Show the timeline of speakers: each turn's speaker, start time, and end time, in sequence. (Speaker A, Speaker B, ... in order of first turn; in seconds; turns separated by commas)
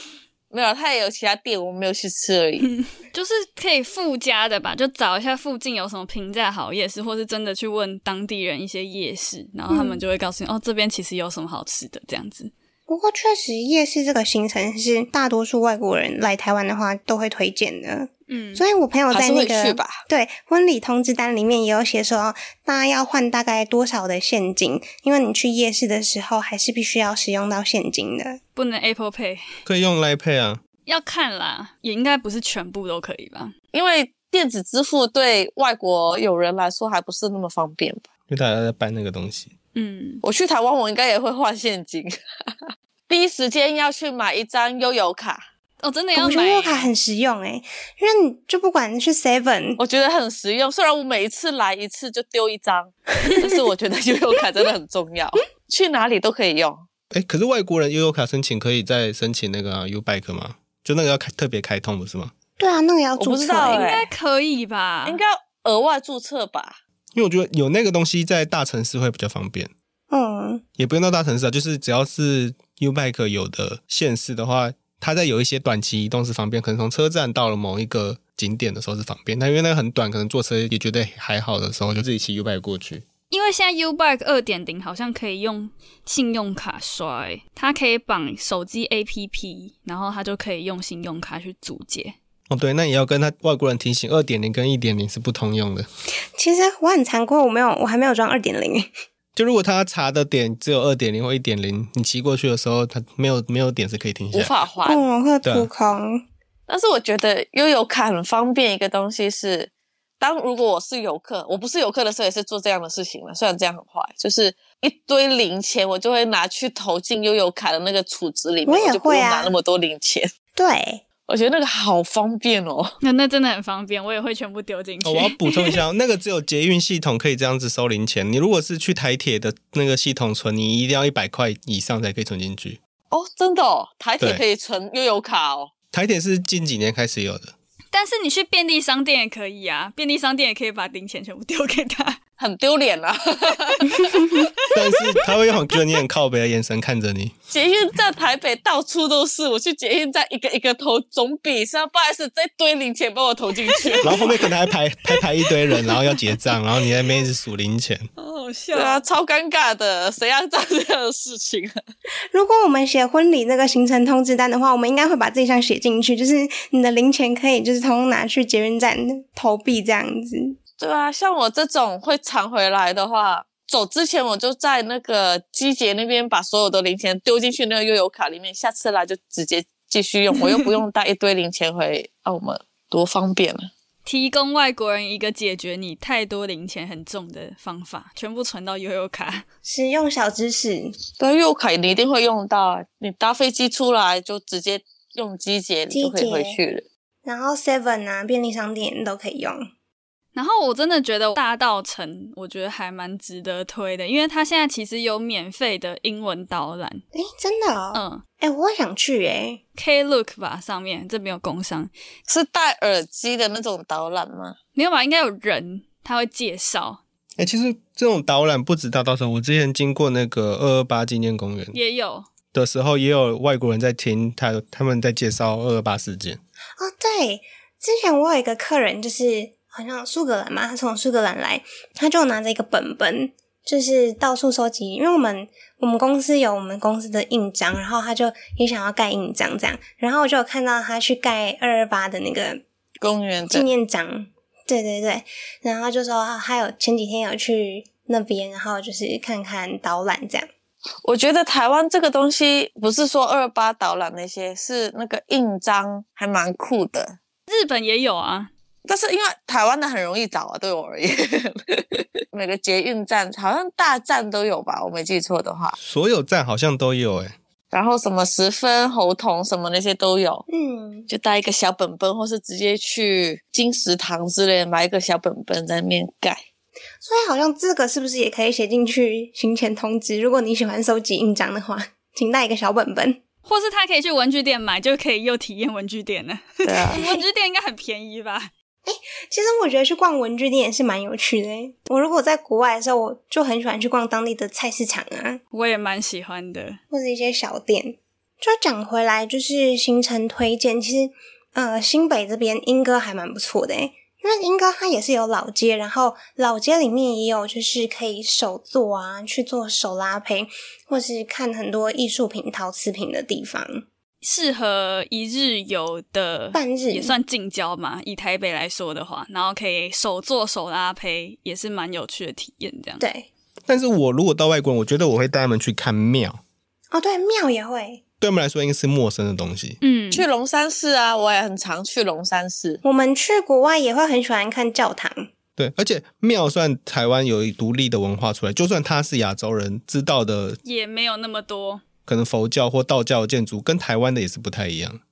Speaker A: 0.5-2.7, Speaker B: 2.6-12.5, Speaker C: 9.7-10.0, Speaker C: 12.9-28.4, Speaker B: 18.3-18.6, Speaker A: 19.1-20.0, Speaker B: 28.6-29.4, Speaker D: 29.6-30.6, Speaker B: 30.9-33.5, Speaker A: 33.7-38.0, Speaker D: 38.3-39.5, Speaker B: 39.7-40.2, Speaker A: 40.2-42.1, Speaker A: 43.1-45.4, Speaker B: 45.8-46.9, Speaker C: 46.1-49.8, Speaker A: 49.8-56.8, Speaker C: 53.2-53.5, Speaker D: 57.1-62.3, Speaker C: 62.6-63.9, Speaker A: 63.2-64.1, Speaker B: 63.7-65.2, Speaker A: 65.0-66.8, Speaker D: 67.1-69.7, Speaker C: 70.1-70.6, Speaker D: 70.8-83.0, Speaker B: 83.3-92.2, Speaker D: 92.5-95.8, Speaker C: 96.3-98.9, Speaker D: 99.3-104.6, Speaker A: 104.3-105.0, Speaker C: 104.8-106.2, Speaker A: 106.7-120.3, Speaker C: 118.7-119.5, Speaker C: 120.5-121.0, Speaker A: 121.3-122.9, Speaker B: 123.0-125.8, Speaker D: 125.0-132.8, Speaker A: 133.1-135.7, Speaker D: 135.9-137.5, Speaker B: 137.9-142.2, Speaker A: 142.4-143.9, Speaker B: 143.8-145.0, Speaker D: 144.7-147.3, Speaker A: 147.5-154.3, Speaker B: 153.7-154.3, Speaker D: 154.0-158.1, Speaker B: 155.7-156.2, Speaker B: 158.2-159.0, Speaker A: 158.7-161.7, Speaker C: 162.3-170.6, Speaker A: 170.8-183.7, Speaker B: 184.0-189.4, Speaker C: 189.6-191.0, Speaker A: 191.2-196.8, Speaker C: 195.9-196.6, Speaker C: 197.2-199.7, Speaker B: 200.3-207.0, Speaker C: 207.1-209.6, Speaker B: 207.9-208.2, Speaker B: 209.8-211.9, Speaker A: 212.3-214.6, Speaker B: 214.7-217.0, Speaker D: 217.4-221.8, Speaker B: 221.7-222.3, Speaker D: 222.5-226.4, Speaker C: 226.8-242.6, Speaker A: 243.0-243.7, Speaker C: 243.5-250.5, Speaker A: 251.0-257.2, Speaker B: 257.5-258.5, Speaker A: 258.9-265.8, Speaker D: 265.8-267.3, Speaker A: 267.7-270.4, Speaker C: 270.5-271.1, Speaker A: 271.1-276.4, Speaker C: 277.0-283.2, Speaker B: 283.4-288.5, Speaker A: 286.6-287.0, Speaker C: 286.9-287.2, Speaker C: 288.8-295.4, Speaker B: 295.5-296.8, Speaker C: 296.9-313.8, Speaker B: 314.2-323.0, Speaker C: 316.5-317.1, Speaker C: 323.0-323.3, Speaker D: 323.7-326.4, Speaker C: 326.9-328.0, Speaker D: 328.2-329.8, Speaker B: 329.8-330.2, Speaker A: 330.1-332.8, Speaker C: 332.8-335.3, Speaker D: 335.6-340.6, Speaker B: 340.6-341.8, Speaker D: 342.1-345.0